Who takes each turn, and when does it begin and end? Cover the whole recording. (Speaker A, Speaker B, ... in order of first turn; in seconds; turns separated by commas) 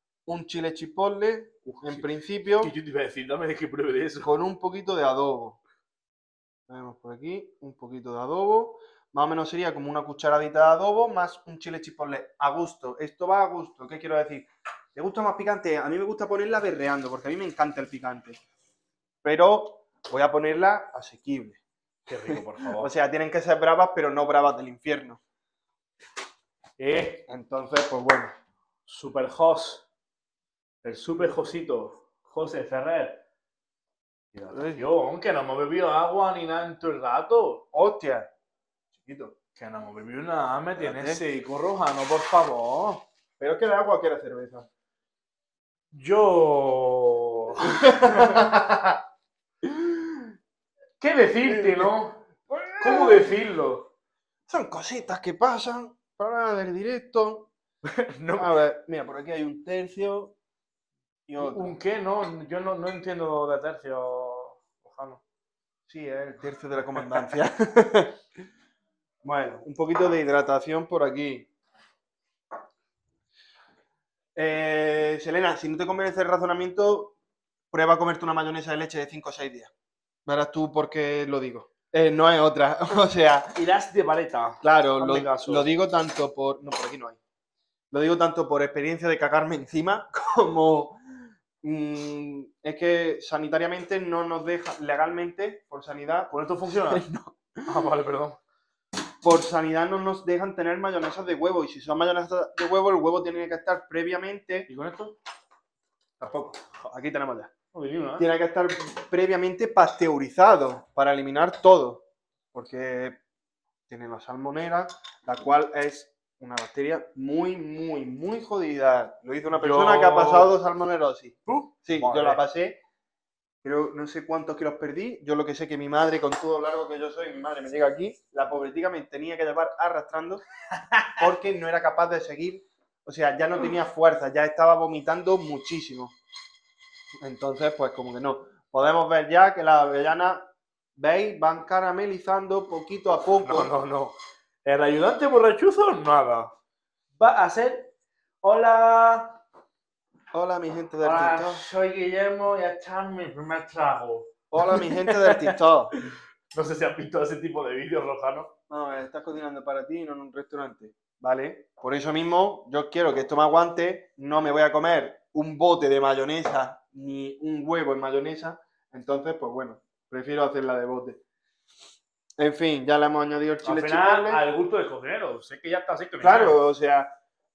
Speaker A: 0.3-2.7, Speaker B: 1.7-4.3, Speaker A: 4.2-5.6, Speaker A: 6.7-18.4, Speaker A: 19.2-21.6, Speaker B: 22.1-22.9, Speaker A: 22.3-25.2, Speaker B: 26.8-27.2, Speaker A: 27.3-28.3, Speaker B: 28.9-29.8, Speaker B: 30.8-33.2, Speaker B: 34.3-37.6, Speaker A: 34.5-34.9, Speaker A: 37.7-38.3, Speaker A: 38.9-39.3, Speaker B: 39.5-43.0, Speaker A: 40.8-41.2, Speaker A: 43.4-44.7, Speaker B: 45.9-48.5, Speaker A: 47.6-49.0, Speaker A: 49.6-50.3, Speaker B: 51.0-53.9, Speaker A: 51.4-53.4, Speaker A: 54.5-57.5, Speaker B: 58.0-58.6, Speaker A: 58.3-60.4, Speaker A: 61.3-61.7, Speaker B: 61.4-65.2, Speaker A: 65.9-68.2, Speaker A: 69.2-71.5, Speaker A: 74.3-77.2, Speaker A: 77.7-79.7, Speaker A: 80.2-83.6, Speaker B: 83.5-85.7, Speaker A: 84.6-87.2, Speaker A: 87.9-91.0, Speaker A: 91.6-97.7, Speaker B: 96.3-97.1, Speaker B: 97.7-98.4, Speaker A: 99.2-104.7, Speaker B: 104.7-105.2, Speaker A: 106.2-107.5, Speaker B: 107.7-108.3, Speaker A: 108.2-113.2, Speaker A: 113.9-122.8, Speaker B: 119.5-120.5, Speaker B: 121.5-122.4, Speaker A: 123.6-130.4, Speaker B: 130.9-131.2, Speaker A: 131.2-136.1, Speaker A: 137.2-143.7, Speaker B: 143.4-146.5, Speaker B: 147.2-149.4, Speaker A: 150.3-151.6, Speaker B: 151.0-155.6, Speaker A: 154.5-155.9, Speaker B: 156.5-158.5, Speaker A: 158.7-171.2, Speaker A: 172.4-174.4, Speaker B: 173.6-176.6, Speaker A: 176.2-177.2